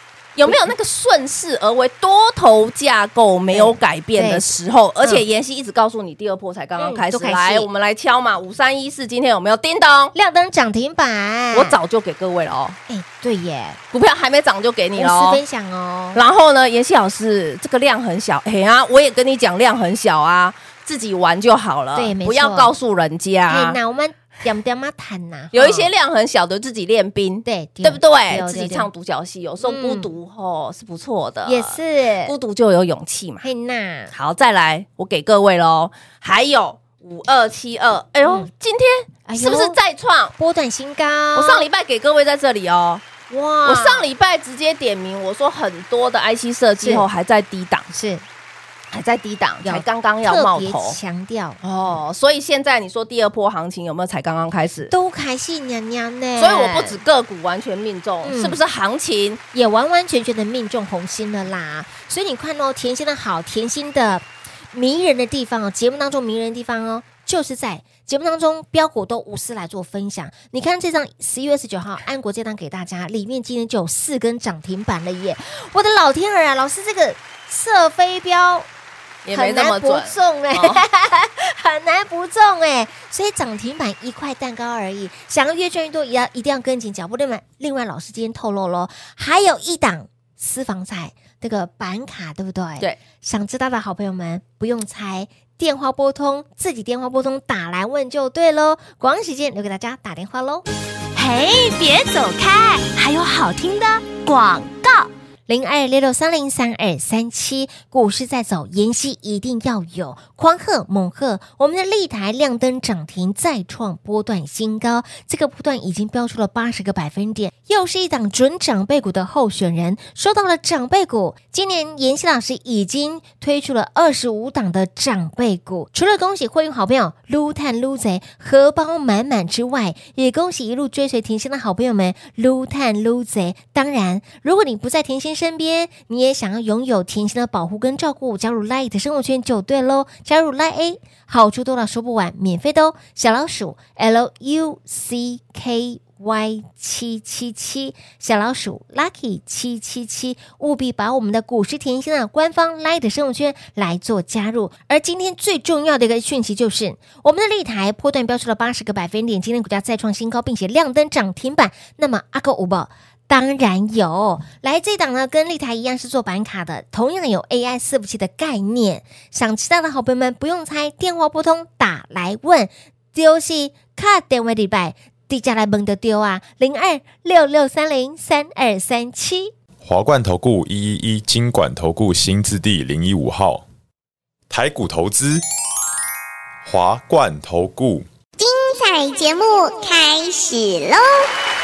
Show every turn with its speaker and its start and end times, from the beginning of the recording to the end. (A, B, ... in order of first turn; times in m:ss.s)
0:00.4-0:10.1 A
0:03.5-0:04.5 B
0:06.8-0:07.7 B
0:10.1-0:11.8 B
0:11.5-0:12.8 A
0:12.9-0:13.8 B
0:13.9-0:15.4 A
0:15.0-0:16.2 B
0:16.1-0:23.8 A
0:22.0-0:22.7 B
0:23.5-0:25.9 B
0:25.5-0:33.5 A
0:27.4-0:28.9 B
0:29.6-0:30.1 B
0:31.4-0:32.3 B
0:33.4-0:34.1 B
0:34.1-0:40.3 A
0:39.3-0:39.8 B
0:40.4-0:41.6 B
0:41.3-0:43.1 A
0:43.3-0:44.0 B
0:43.6-0:47.9 A
0:46.8-0:47.1 B
0:47.9-0:48.2 B
0:48.9-0:51.0 A
0:49.6-0:51.6 B
0:51.6-0:54.9 A
0:54.9-0:57.0 B
0:56.4-0:59.4 A
0:58.2-0:58.6 B
0:59.5-1:18.7 B
1:19.2-1:20.8 A
1:19.3-1:40.6 B
1:41.1-1:45.1 C
1:45.5-2:59.5 B
2:59.8-3:03.6 D
3:04.5-3:05.4 D
3:06.6-3:08.0 D
3:08.4-3:11.2 E